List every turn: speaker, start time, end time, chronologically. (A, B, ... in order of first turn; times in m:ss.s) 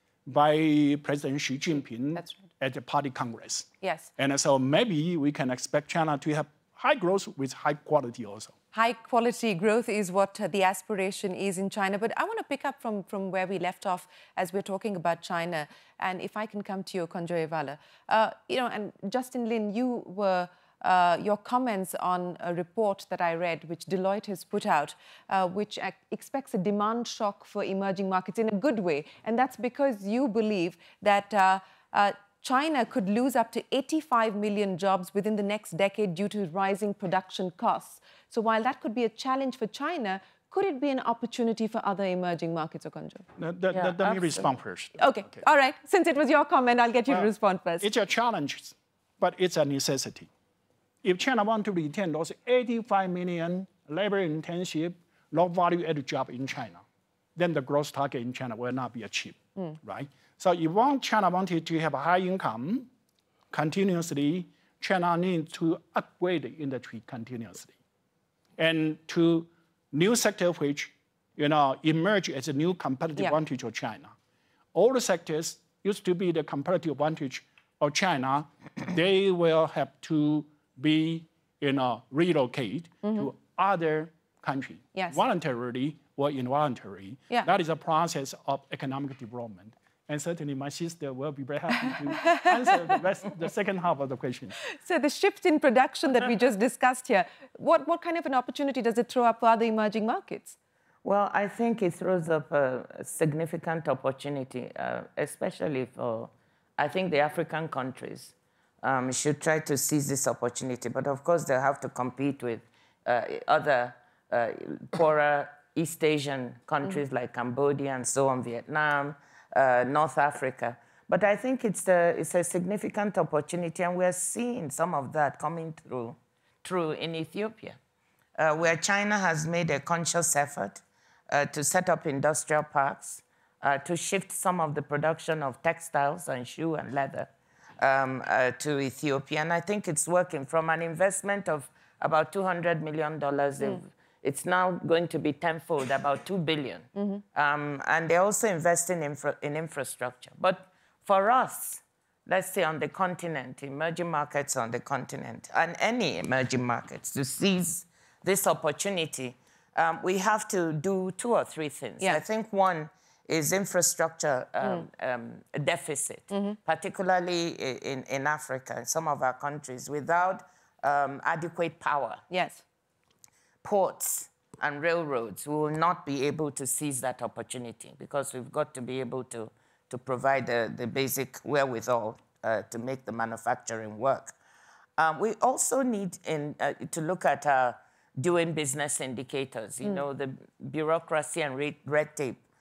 0:00.2-0:08.5 A
0:02.2-0:02.4 B
0:03.8-0:04.1 B
0:08.7-0:43.2 B
0:43.4-0:45.4 A
0:43.7-0:44.5 C
0:45.0-0:47.9 B
0:47.8-0:50.3 A
0:51.0-0:56.8 A
0:57.4-1:02.9 A
1:03.5-1:07.7 A
1:08.6-1:14.1 A
1:14.7-1:34.6 A
1:24.9-1:25.2 B
1:32.0-1:32.4 B
1:34.7-1:40.6 B
1:41.0-2:07.8 C
2:08.4-2:52.2 C
2:27.0-2:27.2 B
2:46.3-2:46.6 B
2:52.3-2:52.6 B
2:53.6-3:04.3 C
3:05.0-3:12.4 C